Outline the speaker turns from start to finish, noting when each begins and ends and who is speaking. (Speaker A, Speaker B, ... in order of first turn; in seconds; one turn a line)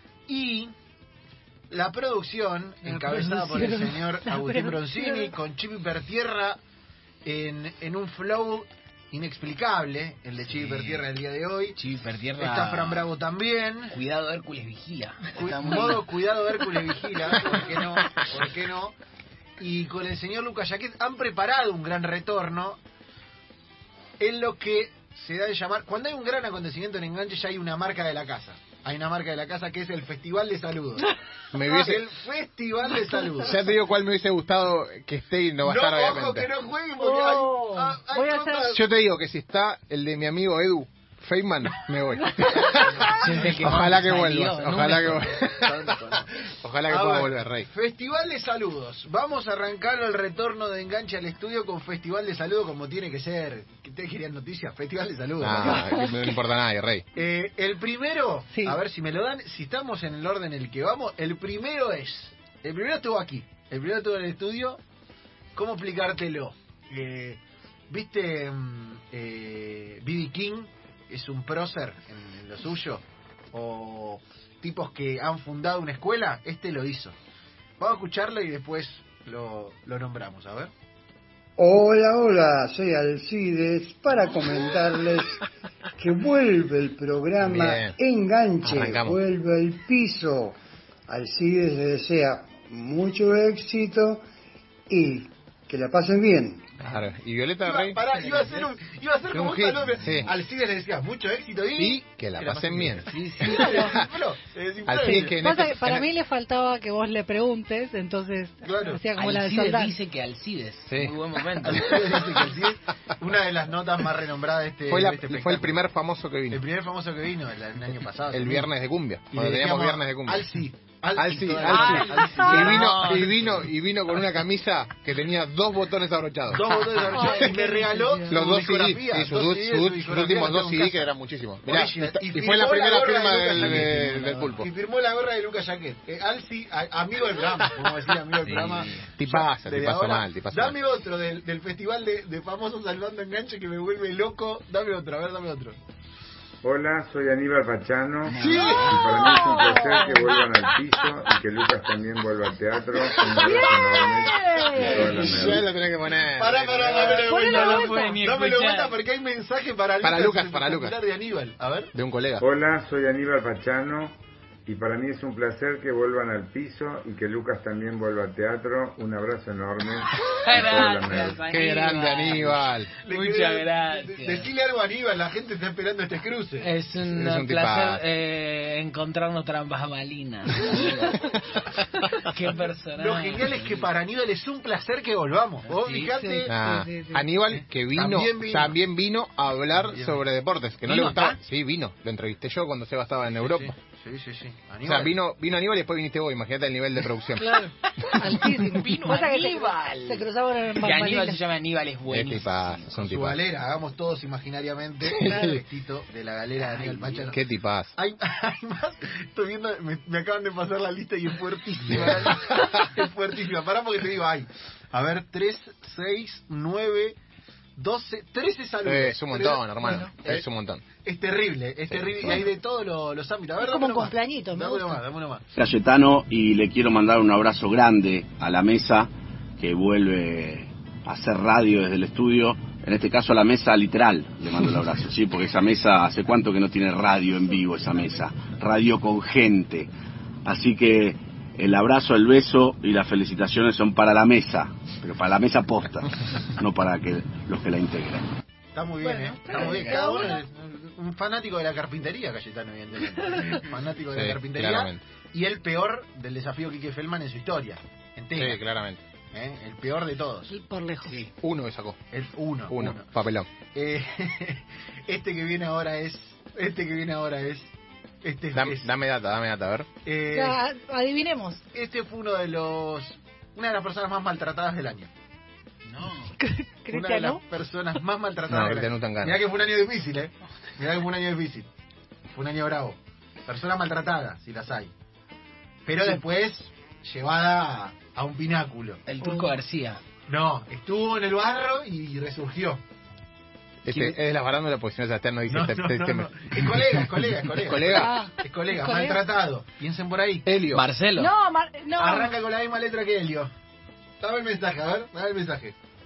Speaker A: 0.3-0.7
Speaker A: 1.7-6.6
Speaker B: 2.8-5.3
Speaker A: 7.2-11.8
Speaker C: 10.5-11.1
Speaker C: 11.8-13.1
Speaker A: 12.4-13.9
Speaker C: 13.9-16.1
Speaker A: 15.3-18.9
Speaker A: 19.6-22.8
Speaker A: 24.2-31.0
Speaker D: 31.5-32.0
Speaker A: 31.6-33.6
Speaker B: 33.0-33.4
Speaker D: 33.5-36.5
Speaker A: 35.6-38.8
Speaker B: 37.0-38.8
Speaker D: 38.7-45.9
Speaker A: 42.7-43.7
Speaker C: 43.1-45.3
Speaker A: 45.4-46.3
Speaker D: 46.6-47.7
Speaker A: 46.9-56.0
Speaker D: 55.4-57.0
Speaker B: 55.8-56.3
Speaker A: 57.1-64.8
Speaker B: 58.5-58.8
Speaker A: 65.5-77.2
Speaker A: 77.8-80.7
Speaker E: 81.6-85.4
Speaker E: 86.0-90.5
Speaker D: 87.4-88.0
Speaker D: 88.6-89.2
Speaker E: 91.1-94.2
Speaker E: 94.9-96.6
Speaker D: 96.8-98.0
Speaker A: 97.6-105.4
Speaker C: 98.2-98.6
Speaker D: 99.3-100.3
Speaker D: 101.8-103.9
Speaker B: 103.5-104.0
Speaker D: 104.9-106.1
Speaker B: 105.0-109.9
Speaker A: 108.6-109.0
Speaker C: 109.2-112.2
Speaker D: 110.9-111.8
Speaker A: 111.6-115.8
Speaker D: 114.9-116.6
Speaker A: 116.5-118.7
Speaker D: 118.3-120.5
Speaker A: 119.3-123.2
Speaker D: 121.2-126.7
Speaker C: 121.7-123.5
Speaker B: 121.8-122.7
Speaker A: 126.5-131.1
Speaker B: 127.0-128.6
Speaker D: 128.3-134.7
Speaker A: 131.6-145.8
Speaker C: 133.5-134.6
Speaker C: 138.4-139.1
Speaker D: 139.2-140.8
Speaker F: 146.6-155.7
Speaker C: 148.3-149.0
Speaker A: 148.4-148.8
Speaker B: 148.5-150.4
Speaker B: 153.3-155.2
Speaker D: 154.8-157.2
Speaker A: 156.4-161.9
Speaker B: 157.0-158.2
Speaker C: 157.3-158.9
Speaker D: 160.0-160.9
Speaker D: 161.9-162.4
Speaker F: 162.4-171.4
Speaker C: 170.3-174.5
Speaker D: 171.4-172.9
Speaker A: 173.0-176.7
Speaker C: 176.6-181.3
Speaker D: 177.1-178.0
Speaker C: 182.2-183.9
Speaker A: 183.0-186.5
Speaker C: 185.7-186.2
Speaker B: 186.1-187.2
Speaker D: 186.5-193.7
Speaker A: 187.5-188.8
Speaker A: 189.7-190.2
Speaker C: 190.8-191.4
Speaker A: 193.4-195.1
Speaker D: 194.8-197.6
Speaker B: 197.4-201.4
Speaker C: 198.2-202.9
Speaker D: 202.1-203.4
Speaker A: 203.0-207.4
Speaker D: 205.1-205.6
Speaker C: 206.6-207.3
Speaker D: 207.3-207.9
Speaker A: 207.9-217.2
Speaker D: 211.9-212.8
Speaker A: 217.8-220.4
Speaker D: 218.8-220.8
Speaker B: 219.8-220.1
Speaker A: 221.0-225.4
Speaker D: 221.9-222.4
Speaker B: 223.6-225.0
Speaker G: 225.5-239.9
Speaker G: 240.4-248.3
Speaker A: 248.7-258.6
Speaker B: 249.0-250.4
Speaker C: 249.5-250.0
Speaker B: 253.4-253.6
Speaker D: 254.1-255.0
Speaker D: 258.4-259.0
Speaker A: 259.3-260.5
Speaker B: 260.5-261.2
Speaker D: 261.3-262.0
Speaker A: 262.1-263.1
Speaker D: 262.7-263.5
Speaker A: 263.7-267.7
Speaker A: 268.2-268.9
Speaker D: 268.5-269.9
Speaker A: 270.0-270.6
Speaker B: 270.3-271.6
Speaker A: 271.7-275.1
Speaker C: 275.9-276.3
Speaker B: 276.4-277.4
Speaker A: 276.9-281.7
Speaker D: 278.5-279.4
Speaker A: 282.3-284.9
Speaker A: 285.9-289.0
Speaker C: 289.1-290.0
Speaker B: 289.2-289.5
Speaker A: 290.3-292.8
Speaker D: 293.8-298.1
Speaker A: 295.5-300.5
Speaker B: 297.9-299.2
Speaker D: 300.4-300.8
Speaker C: 300.7-301.3
Speaker B: 301.1-302.3
Speaker A: 302.0-303.5
Speaker A: 304.2-305.7